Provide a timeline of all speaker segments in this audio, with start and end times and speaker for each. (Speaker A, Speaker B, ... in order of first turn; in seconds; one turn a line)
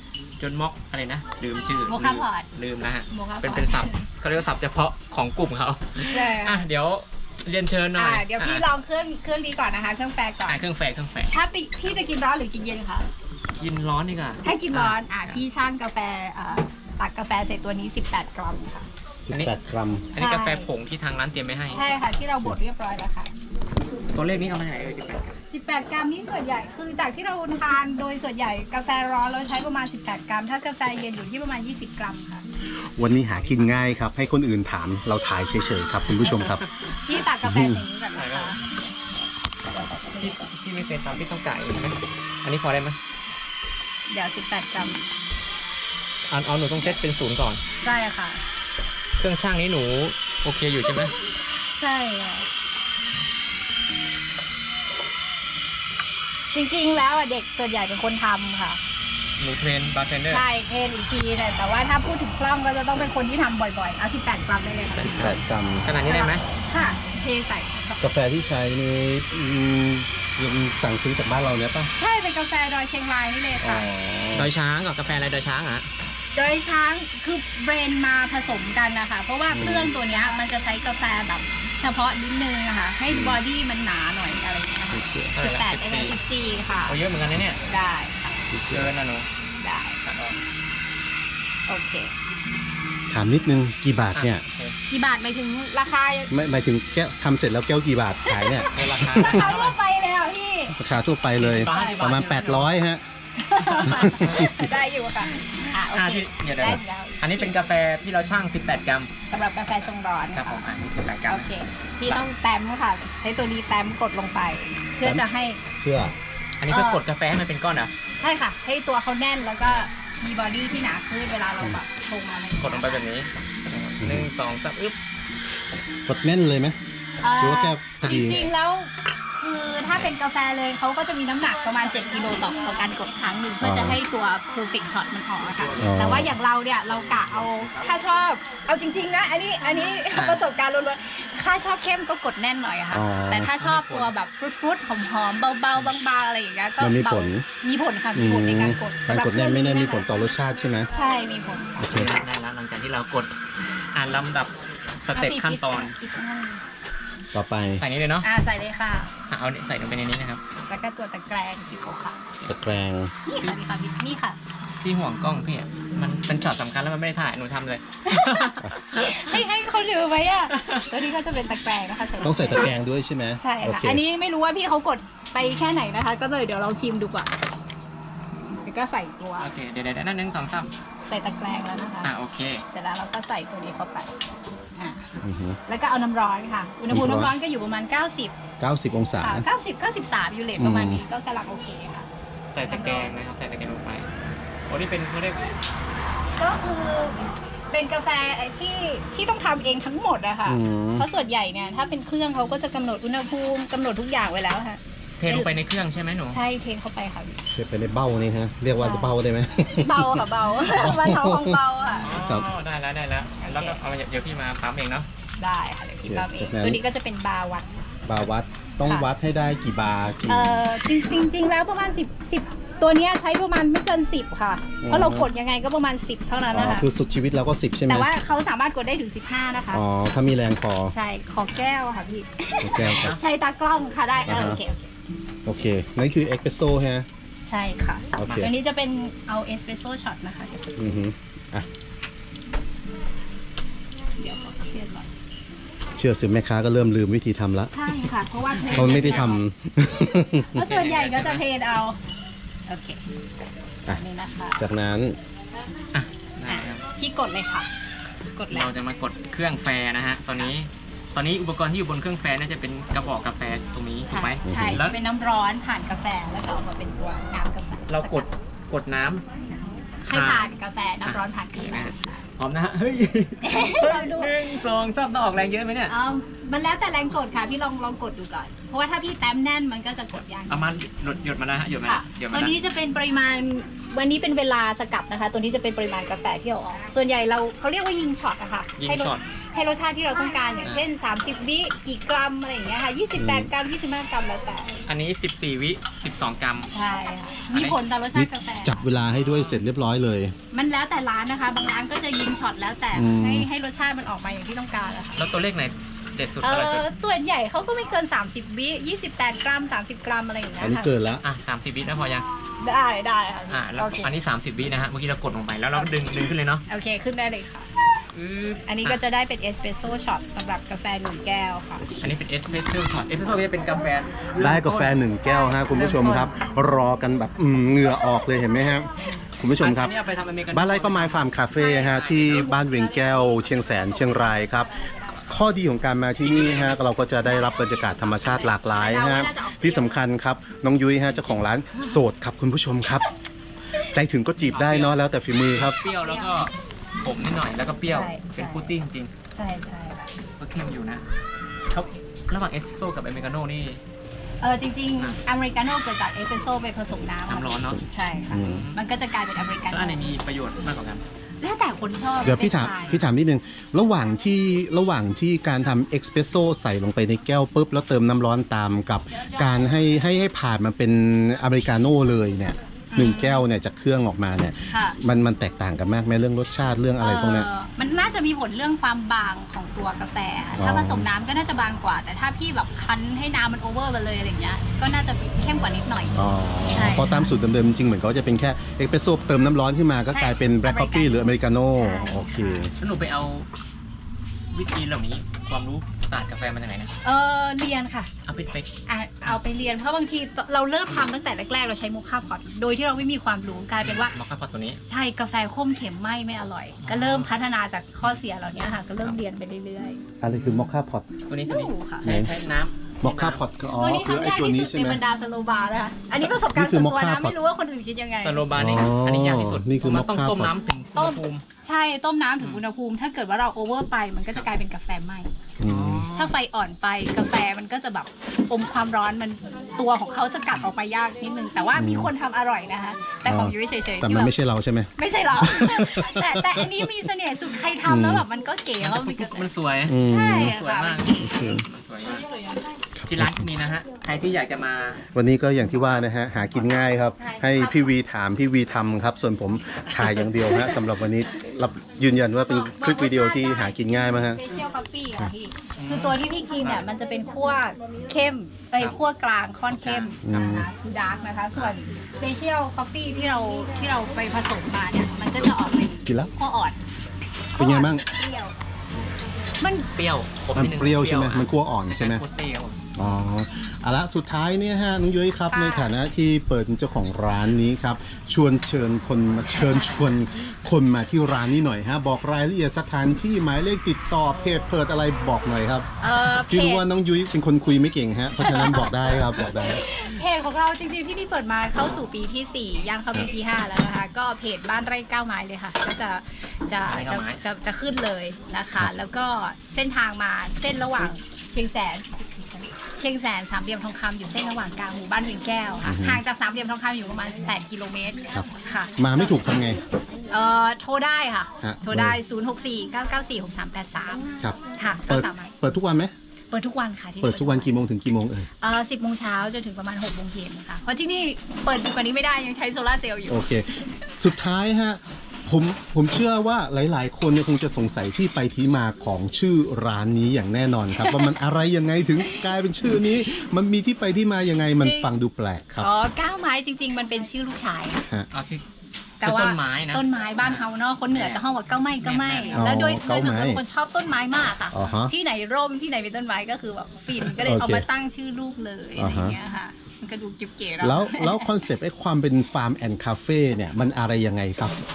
Speaker A: 0.4-8.7
Speaker B: 1.9-2.5
Speaker B: 3.1-4.0
Speaker B: 6.1-6.6
Speaker B: 7.9-10.6
Speaker A: 10.5-11.4
Speaker B: 11.3-13.1
Speaker A: 13.5-15.4
Speaker B: 14.4-18.9
Speaker C: 19.2-20.1
Speaker A: 20.1-21.8
Speaker B: 20.1-20.7
Speaker B: 21.7-23.3
Speaker A: 24.1-25.4
Speaker B: 25.5-32.4
Speaker C: 33.0-36.6
Speaker B: 36.2-36.5
Speaker A: 36.4-36.7
Speaker B: 37.0-38.6
Speaker C: 37.4-37.9
Speaker A: 38.1-38.6
Speaker A: 40.1-43.0
Speaker B: 44.1-45.1
Speaker A: 46.3-47.6
Speaker B: 47.8-48.4
Speaker A: 49.2-51.1
Speaker B: 51.0-52.5
Speaker B: 56.5-58.8
Speaker A: 59.4-60.4
Speaker B: 60.3-65.2
Speaker A: 65.0-66.4
Speaker C: 65.0-65.9
Speaker B: 66.0-68.0
Speaker C: 68.0-71.9
Speaker B: 71.9-73.9
Speaker C: 73.6-74.5
Speaker A: 74.3-75.9
Speaker B: 76.3-87.0
Speaker C: 79.5-80.0
Speaker C: 83.1-83.4
Speaker C: 84.9-85.3
Speaker A: 85.3-86.2
Speaker A: 86.8-87.6
Speaker B: 87.6-88.5
Speaker C: 88.5-88.9
Speaker A: 88.7-89.3
Speaker B: 89.6-90.0
Speaker A: 90.0-90.4
Speaker B: 91.7-92.1
Speaker C: 93.1-94.4
Speaker A: 94.1-94.8
Speaker B: 94.9-96.3
Speaker C: 96.3-99.5
Speaker B: 98.2-100.8
Speaker A: 98.7-99.8
Speaker C: 100.8-103.0
Speaker A: 101.4-102.7
Speaker B: 101.6-102.0
Speaker B: 103.4-107.5
Speaker C: 103.8-104.7
Speaker A: 103.9-104.5
Speaker A: 105.9-109.1
Speaker B: 109.3-110.7
Speaker A: 110.3-111.5
Speaker B: 111.3-115.6
Speaker C: 115.8-116.1
Speaker A: 116.6-117.9
Speaker B: 116.7-117.0
Speaker B: 118.2-123.0
Speaker A: 122.6-125.0
Speaker C: 124.0-124.3
Speaker C: 126.0-126.8
Speaker B: 127.2-150.1
Speaker C: 127.4-128.5
Speaker A: 128.0-128.3
Speaker C: 133.6-134.0
Speaker C: 135.8-136.3
Speaker A: 140.1-140.4
Speaker C: 142.9-143.5
Speaker A: 143.5-144.1
Speaker C: 146.8-147.4
Speaker C: 148.1-150.9
Speaker B: 150.9-151.9
Speaker A: 151.8-155.9
Speaker C: 151.8-152.1
Speaker B: 155.1-156.6
Speaker C: 157.3-157.8
Speaker A: 157.8-158.3
Speaker B: 158.2-159.1
Speaker A: 159.3-160.4
Speaker B: 160.7-162.2
Speaker C: 162.4-163.1
Speaker B: 163.2-164.4
Speaker A: 164.8-169.2
Speaker B: 168.0-172.7
Speaker A: 170.6-170.9
Speaker C: 172.2-174.0
Speaker B: 173.4-177.3
Speaker B: 178.5-179.5
Speaker A: 179.4-180.7
Speaker B: 181.1-182.1
Speaker A: 182.0-182.6
Speaker B: 182.7-184.1
Speaker B: 184.8-185.1
Speaker C: 185.2-185.6
Speaker B: 185.7-188.3
Speaker C: 186.9-187.3
Speaker C: 188.6-189.5
Speaker B: 189.2-192.1
Speaker C: 190.6-191.0
Speaker A: 192.5-194.1
Speaker B: 192.7-193.1
Speaker A: 194.7-195.5
Speaker B: 196.4-197.2
Speaker B: 197.7-205.5
Speaker C: 200.4-201.1
Speaker A: 205.2-206.4
Speaker B: 206.3-207.4
Speaker C: 207.5-211.6
Speaker B: 208.7-209.1
Speaker B: 209.7-212.1
Speaker A: 212.0-215.1
Speaker C: 212.1-212.5
Speaker B: 213.4-213.8
Speaker B: 215.4-217.8
Speaker C: 216.0-216.8
Speaker C: 218.1-220.8
Speaker B: 220.3-226.9
Speaker C: 224.8-225.3
Speaker C: 226.5-228.1
Speaker B: 227.9-229.8
Speaker C: 229.7-230.9
Speaker B: 230.9-234.9
Speaker C: 232.6-233.1
Speaker A: 232.7-233.2
Speaker C: 234.2-234.6
Speaker C: 235.4-237.1
Speaker B: 237.4-240.8
Speaker C: 238.2-238.5
Speaker A: 238.2-238.4
Speaker C: 240.8-241.7
Speaker B: 244.2-245.1
Speaker C: 246.0-247.8
Speaker B: 247.7-249.4
Speaker A: 248.7-249.3
Speaker C: 248.7-250.6
Speaker B: 250.5-252.0
Speaker A: 250.6-251.4
Speaker B: 252.7-253.0
Speaker B: 253.9-254.6
Speaker C: 254.6-255.2
Speaker A: 255.9-256.8
Speaker B: 256.5-257.7
Speaker B: 258.3-258.7
Speaker A: 258.5-265.0
Speaker B: 264.1-268.3
Speaker C: 264.4-264.8
Speaker A: 267.9-269.2
Speaker B: 270.0-272.2
Speaker A: 270.1-270.5
Speaker A: 271.0-275.9
Speaker B: 273.4-274.6
Speaker B: 275.9-280.6
Speaker A: 280.5-282.5
Speaker B: 281.8-294.9
Speaker A: 288.8-289.2
Speaker C: 293.1-293.5
Speaker A: 294.9-296.7
Speaker B: 296.7-298.9
Speaker C: 298.1-300.3
Speaker A: 299.1-299.6
Speaker B: 300.5-305.2
Speaker C: 302.9-303.5
Speaker A: 305.2-306.9
Speaker B: 306.4-310.9
Speaker C: 310.6-311.2
Speaker A: 311.2-312.2
Speaker B: 312.6-314.1
Speaker A: 313.5-316.6
Speaker B: 316.7-317.6
Speaker A: 318.1-319.0
Speaker B: 318.7-322.0
Speaker A: 322.0-325.0
Speaker C: 324.4-329.9
Speaker B: 325.2-325.7
Speaker A: 325.6-326.3
Speaker A: 329.6-332.6
Speaker C: 330.5-334.7
Speaker B: 331.5-334.3
Speaker C: 335.3-343.1
Speaker A: 336.2-336.8
Speaker B: 337.2-340.0
Speaker C: 343.8-345.8
Speaker A: 344.5-349.1
Speaker B: 346.0-346.3
Speaker B: 347.9-348.7
Speaker B: 349.3-350.1
Speaker A: 350.4-351.1
Speaker A: 351.7-353.8
Speaker B: 354.4-360.1
Speaker A: 357.3-358.8
Speaker C: 358.3-358.7
Speaker A: 359.7-361.0
Speaker B: 361.4-363.0
Speaker C: 362.2-377.5
Speaker B: 372.9-373.4
Speaker B: 374.7-375.0
Speaker B: 377.0-387.3
Speaker C: 380.6-381.1
Speaker C: 386.1-392.7
Speaker B: 390.1-392.7
Speaker A: 392.8-393.5
Speaker A: 394.5-396.9
Speaker B: 397.0-398.1
Speaker A: 398.2-398.7
Speaker B: 398.9-404.1
Speaker A: 403.8-404.8
Speaker B: 404.9-410.0
Speaker A: 406.8-407.3
Speaker C: 410.2-411.1
Speaker A: 410.3-410.6
Speaker A: 411.3-413.4
Speaker B: 411.4-412.1
Speaker C: 412.0-412.4
Speaker C: 413.0-415.0
Speaker B: 413.7-418.5
Speaker C: 416.4-417.3
Speaker A: 418.2-421.4
Speaker C: 418.5-420.5
Speaker B: 420.9-425.3
Speaker C: 425.6-426.1
Speaker A: 425.6-426.4
Speaker B: 426.1-434.3
Speaker C: 431.7-432.1
Speaker C: 433.2-436.8
Speaker B: 435.0-441.2
Speaker C: 437.8-438.2
Speaker A: 438.8-442.2
Speaker C: 439.9-440.6
Speaker C: 441.2-441.6
Speaker C: 443.0-443.4
Speaker A: 443.1-445.0
Speaker C: 445.1-454.4
Speaker B: 447.2-447.8
Speaker B: 452.5-466.8
Speaker A: 455.8-456.8
Speaker A: 459.7-460.2
Speaker C: 460.2-460.7
Speaker C: 466.1-466.3
Speaker B: 467.5-468.5
Speaker C: 467.6-468.0
Speaker A: 469.7-472.8
Speaker C: 470.5-472.2
Speaker C: 472.9-489.8
Speaker B: 475.5-475.9
Speaker B: 479.8-480.1
Speaker B: 486.0-486.9
Speaker B: 488.4-509.4
Speaker A: 496.8-497.4
Speaker C: 505.8-506.2
Speaker C: 509.0-509.8
Speaker B: 510.3-515.5
Speaker C: 511.6-512.2
Speaker C: 514.4-516.1
Speaker B: 516.5-517.8
Speaker C: 517.2-518.5
Speaker B: 518.6-523.4
Speaker C: 523.3-535.9
Speaker B: 531.0-531.4
Speaker B: 532.2-532.5
Speaker B: 534.8-535.1
Speaker B: 535.8-538.0
Speaker A: 538.3-538.6
Speaker B: 539.2-551.5
Speaker A: 539.2-541.4
Speaker A: 542.0-542.6
Speaker C: 542.5-543.6
Speaker C: 544.7-545.1
Speaker A: 544.8-545.0
Speaker C: 547.4-547.9
Speaker C: 549.0-549.4
Speaker C: 550.8-554.8